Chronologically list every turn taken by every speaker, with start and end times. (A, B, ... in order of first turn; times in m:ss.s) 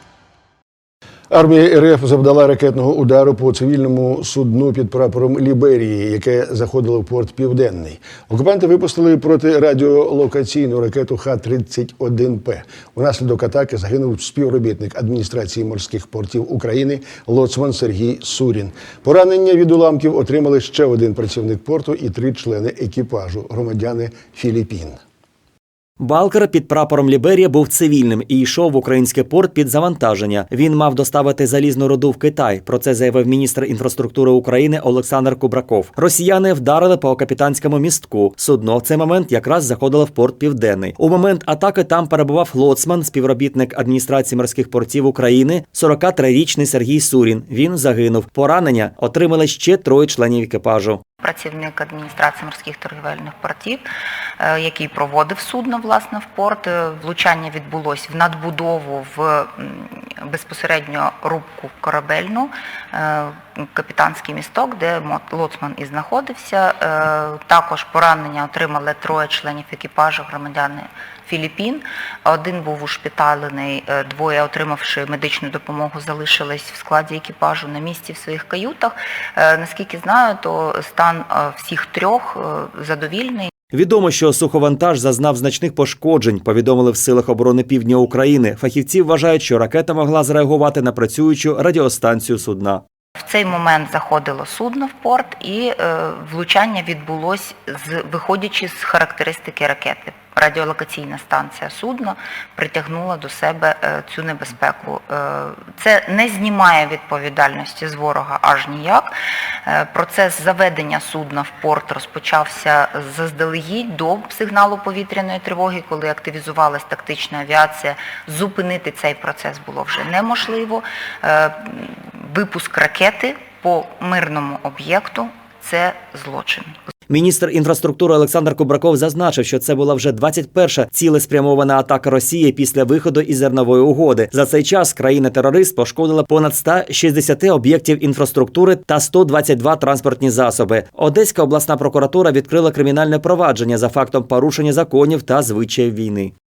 0:01.3-0:25.0 A
0:26.0-0:51.0 B
0:51.2-0:53.8 C
0:54.4-1:23.5 C
1:23.7-1:32.8 B
1:33.2-1:49.1 C
1:49.6-2:06.8 C
2:07.1-2:26.3 B